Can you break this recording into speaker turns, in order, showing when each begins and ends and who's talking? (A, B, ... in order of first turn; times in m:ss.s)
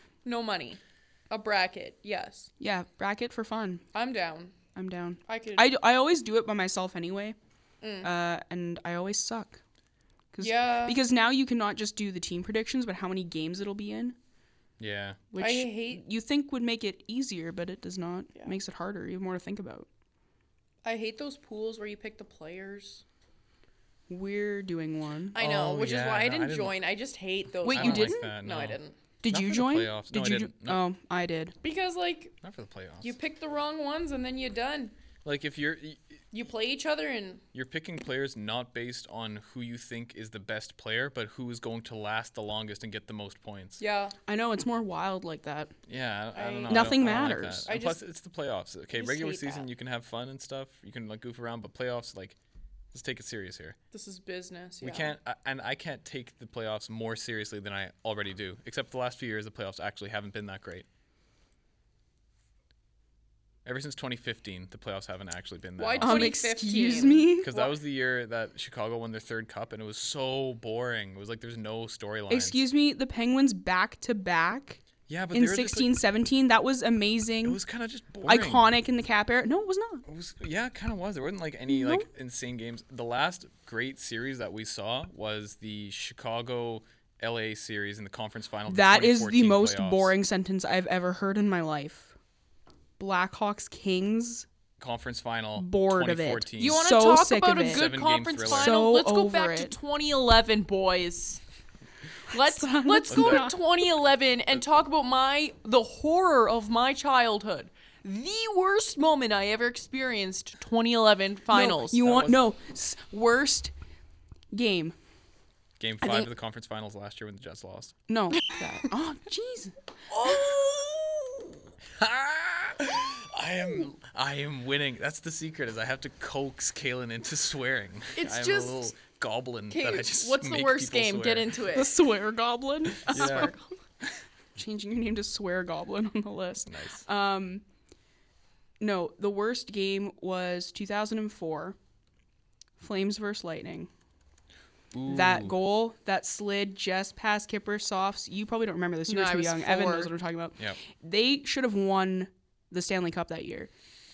0:00.2-0:02.5 A
0:02.6-0:03.8 B
0:03.9-0:04.5 A
0:04.8-0:07.4 B
0:05.3-0:05.7 A
0:07.8-0:08.1 A
0:08.0-0:09.6 B
0:10.3-0:14.2 B
0:10.4-0:11.0 A
0:14.8-0:15.2 C
0:15.3-0:19.9 B
0:15.4-0:16.0 A
0:20.8-0:23.0 A
0:24.1-0:25.4 B
0:25.4-0:29.0 A
0:25.4-0:26.8 C
0:27.6-0:28.3 B
0:27.7-0:30.8 C
0:29.2-0:31.6 B
0:31.6-0:32.4 A
0:32.4-0:33.2 C
0:33.0-0:34.9 A
0:35.2-0:36.1 C
0:36.3-0:37.4 A
0:37.5-0:43.8 C
0:43.8-0:44.2 A
0:44.3-0:45.7 B
0:45.9-0:52.4 C
0:46.3-0:48.0 A
0:46.7-0:47.7 B
0:49.0-0:49.6 A
0:52.9-0:53.8 C
0:53.9-0:55.1 A
0:54.8-1:00.9 C
1:03.6-1:06.5 C
1:05.8-1:07.7 A
1:06.0-1:07.5 B
1:07.4-1:12.6 C
1:12.3-1:17.6 B
1:15.1-1:16.0 C
1:17.4-1:18.7 C
1:18.2-1:20.0 B
1:20.1-1:30.1 C
1:21.7-1:22.1 B
1:28.7-1:32.1 B
1:33.0-1:34.5 B
1:34.8-1:36.9 C
1:35.6-1:37.9 B
1:36.6-1:41.4 A
1:37.6-1:38.8 C
1:38.5-1:39.8 B
1:42.3-1:52.2 A
1:42.3-1:43.6 B
1:43.1-1:43.5 C
1:51.5-1:53.7 B
1:52.0-1:52.4 C
1:54.5-1:55.0 B
1:55.8-1:58.0 C
1:58.1-1:59.8 B
2:00.1-2:01.4 A
2:02.0-2:11.6 C
2:08.2-2:08.9 A
2:09.7-2:12.0 A
2:11.7-2:13.5 B
2:13.0-2:13.5 C
2:13.1-2:13.7 A
2:14.6-2:17.6 B
2:16.7-2:17.0 C
2:18.8-2:21.8 B
2:22.8-2:23.9 B
2:24.9-2:25.6 C
2:25.1-2:33.7 B
2:29.1-2:30.1 A